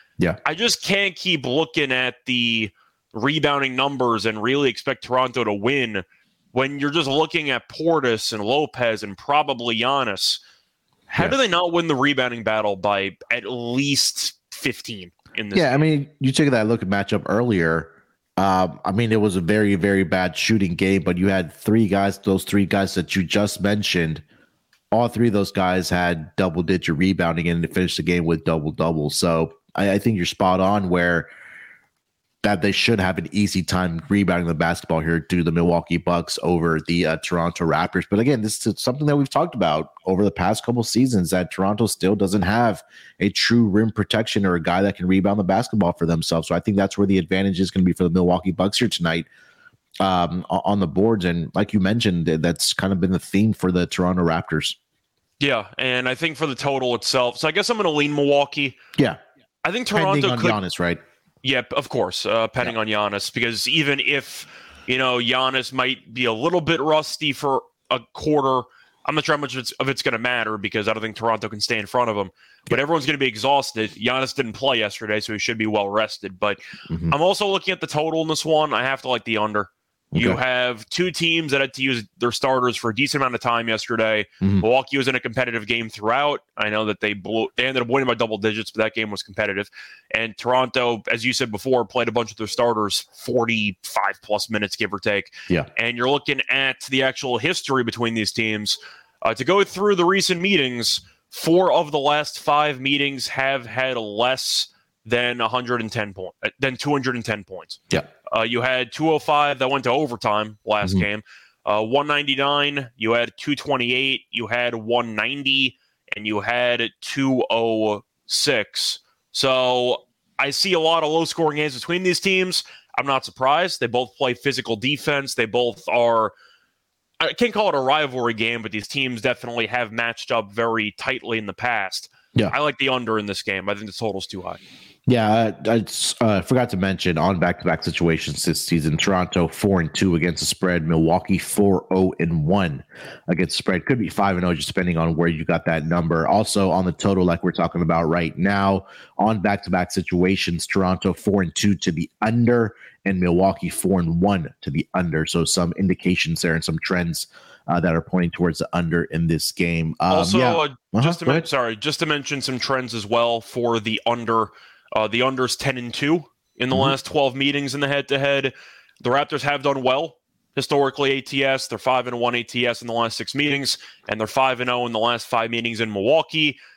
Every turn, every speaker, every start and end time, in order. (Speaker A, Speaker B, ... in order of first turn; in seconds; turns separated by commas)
Speaker A: 0.4-10.4, Speaker A: 11.1-15.8, Speaker B: 15.5-24.2, Speaker B: 24.9-31.3, Speaker B: 32.4-49.3, Speaker B: 50.0-54.8, Speaker A: 55.4-58.8, Speaker A: 59.6-60.6, Speaker B: 59.9-61.0, Speaker A: 61.4-76.6, Speaker B: 76.9-77.1, Speaker A: 77.1-126.3, Speaker B: 80.1-80.4, Speaker B: 84.4-84.7, Speaker A: 127.2-134.6, Speaker B: 135.1-161.5, Speaker A: 160.1-176.6